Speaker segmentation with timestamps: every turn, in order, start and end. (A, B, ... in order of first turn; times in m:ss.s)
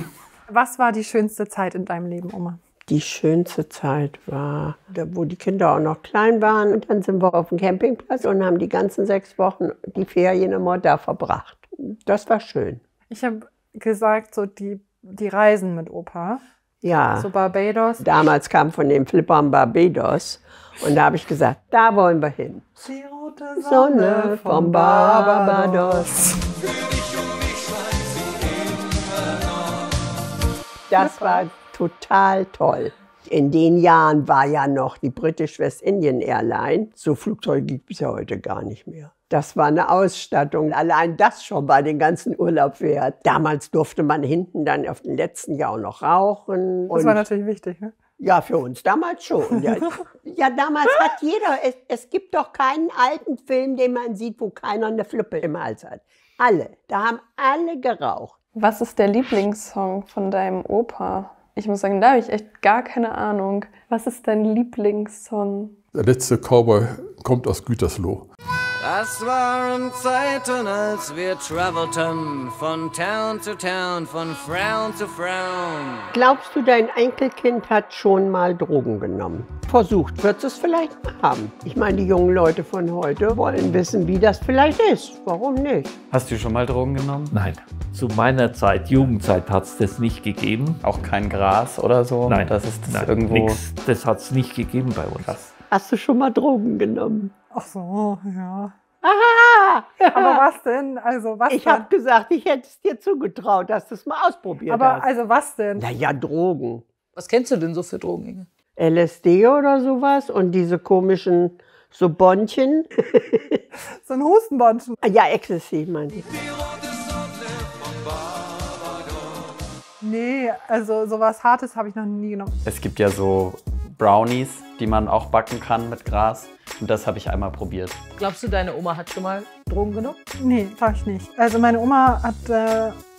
0:00.5-0:02.6 A
0:02.9-0:12.8 B
0:13.1-0:16.4 A
0:16.8-0:17.3 B
0:17.2-0:18.0 A
0:18.0-0:22.7 B
0:22.8-0:26.4 A
0:23.6-0:26.1 B
0:30.9-0:47.2 B
0:31.0-0:31.4 A
0:46.9-0:47.9 A
0:48.2-0:58.4 B
0:58.6-1:05.8 C
1:05.9-1:08.3 D
1:08.8-1:16.1 E
1:16.1-1:25.9 B
1:26.1-1:27.3 F
1:27.3-1:30.8 G
1:30.8-1:33.6 F
1:32.3-1:35.4 G
1:35.2-1:35.5 F
1:35.7-1:37.3 B
1:37.5-1:38.7 A
1:39.0-1:40.4 B
1:40.0-1:41.9 A
1:41.5-1:45.1 B
1:44.7-1:45.9 A
1:45.8-1:46.8 B
1:47.2-1:48.5 H
1:48.8-1:53.6 B
1:54.0-1:55.0 A
1:55.0-1:56.3 B
2:00.0-2:02.5 A
2:02.6-2:08.0 F
2:08.2-2:10.2 H
2:10.4-2:13.0 A